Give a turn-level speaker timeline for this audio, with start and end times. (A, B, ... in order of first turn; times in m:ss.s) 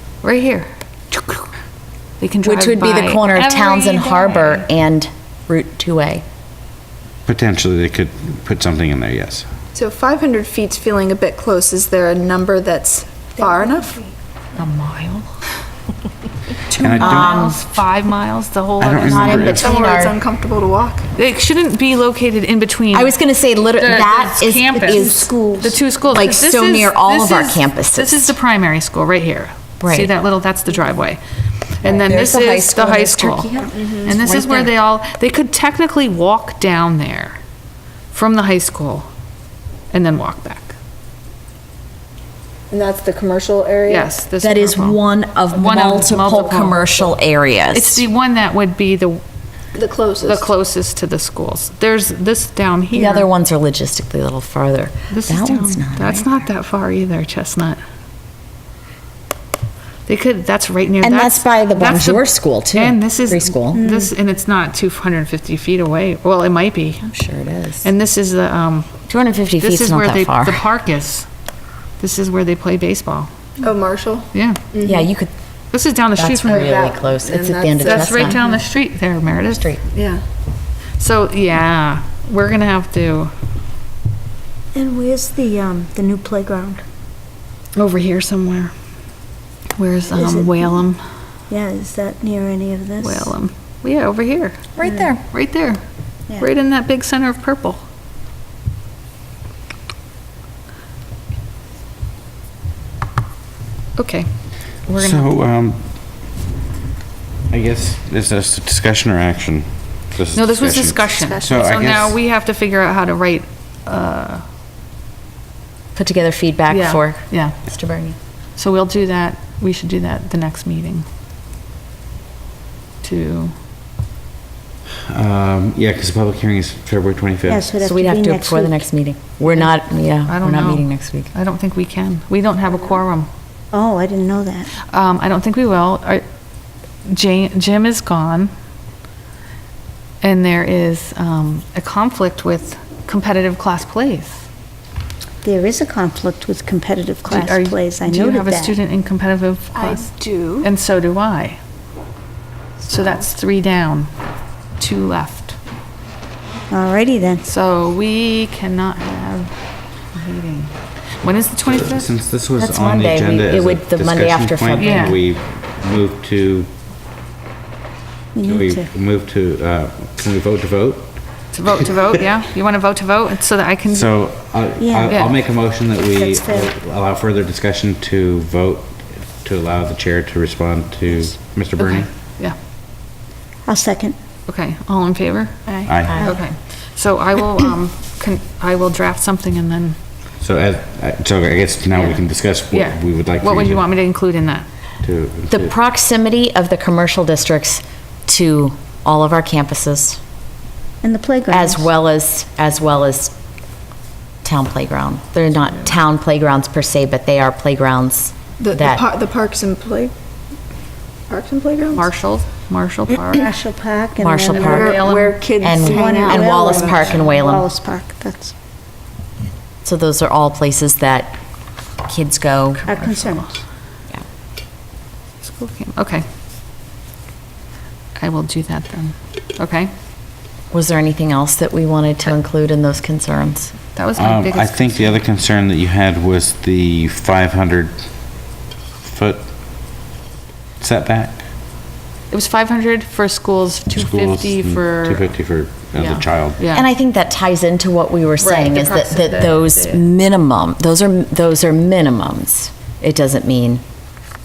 0:00.2-0:01.5 A
0:02.2-0:04.6 A
0:02.4-0:06.2 B
0:07.2-0:09.5 C
0:09.7-0:14.0 D
0:13.4-0:14.0 E
0:14.6-0:15.3 A
0:16.7-0:19.8 A
0:16.7-0:17.4 C
0:17.0-0:17.6 B
0:18.8-0:19.7 C
0:19.0-0:20.2 B
0:19.1-0:21.1 D
0:21.1-0:23.2 A
0:22.9-0:25.3 B
0:23.7-0:31.2 A
0:24.7-0:25.8 E
0:26.1-0:28.3 B
0:29.8-0:30.1 B
0:31.8-0:37.4 A
0:31.8-0:34.7 B
0:33.7-0:34.1 D
0:38.1-0:39.1 A
0:39.9-0:40.7 A
0:42.7-0:44.1 D
0:43.9-0:45.0 A
0:44.4-0:48.0 B
0:45.5-0:47.0 A
0:47.7-0:49.2 A
0:49.7-0:50.5 D
0:50.2-0:53.3 A
0:52.9-0:56.4 B
0:55.1-0:57.8 A
1:00.0-1:07.1 A
1:01.0-1:03.8 B
1:03.8-1:04.1 E
1:07.1-1:07.9 B
1:07.8-1:08.9 A
1:09.1-1:10.6 B
1:09.6-1:11.3 A
1:12.0-1:13.3 A
1:13.6-1:15.1 D
1:14.3-1:14.6 A
1:14.8-1:15.3 B
1:15.7-1:16.7 A
1:16.1-1:18.4 B
1:16.4-1:18.5 D
1:17.8-1:19.7 A
1:19.4-1:19.8 B
1:19.9-1:20.2 D
1:21.0-1:23.3 A
1:24.7-1:26.8 E
1:27.8-1:28.7 A
1:29.8-1:31.0 A
1:30.1-1:30.8 E
1:31.5-1:33.3 E
1:33.0-1:35.8 A
1:34.8-1:35.2 B
1:36.4-1:37.8 A
1:44.0-1:44.3 A
1:44.8-1:45.3 A
1:45.0-1:45.9 C
1:47.5-1:52.2 C
1:50.3-1:54.4 A
1:51.2-1:51.7 D
1:55.9-1:58.2 B
1:56.7-1:57.6 A
1:58.6-2:01.0 A
2:03.0-2:03.5 A
2:05.1-2:07.6 C
2:07.4-2:08.8 E
2:07.8-2:11.3 B
2:10.2-2:13.3 A
2:13.7-2:14.7 E
2:14.9-2:16.2 A
2:17.0-2:18.5 A
2:20.2-2:24.4 A
2:25.4-2:28.8 E
2:27.2-2:30.1 A
2:29.7-2:30.7 D
2:30.6-2:31.6 A
2:32.8-2:34.1 A
2:34.8-2:35.6 A
2:36.7-2:37.4 E
2:37.4-2:42.1 A
2:41.6-2:46.7 C
2:42.6-2:45.1 B
2:44.8-2:45.2 A
2:48.3-2:48.9 E
2:48.4-2:51.1 C
2:51.5-2:54.1 A
2:53.9-3:02.1 C
2:54.8-2:55.3 E
2:55.1-2:55.3 A
2:56.1-2:56.7 E
3:01.8-3:02.6 A
3:03.6-3:04.2 E
3:04.5-3:10.0 A
3:05.8-3:06.3 C
3:05.8-3:06.4 E
3:10.4-3:13.9 C
3:11.9-3:12.2 A
3:12.7-3:14.7 A
3:15.0-3:15.7 C
3:15.5-3:20.2 B
3:21.0-3:21.9 E
3:21.5-3:23.3 B
3:24.4-3:29.0 B
3:28.6-3:30.1 D
3:31.3-3:32.1 D
3:31.9-3:33.5 A
3:33.4-3:35.1 E
3:34.2-3:35.0 B
3:34.5-3:35.4 A
3:34.6-3:36.9 D
3:35.6-3:37.7 B
3:35.7-3:38.5 E
3:39.8-3:41.4 B
3:42.0-3:42.8 B
3:42.8-3:43.5 E
3:42.9-3:43.6 A
3:45.4-3:46.2 A
3:48.2-3:49.9 A
3:50.7-3:53.7 B
3:53.9-3:55.2 A
3:54.2-3:58.0 C
3:59.0-3:59.5 C
4:00.8-4:01.4 C
4:02.3-4:05.3 A
4:03.9-4:06.6 C
4:05.9-4:06.9 A
4:06.7-4:13.8 B
4:08.4-4:10.0 A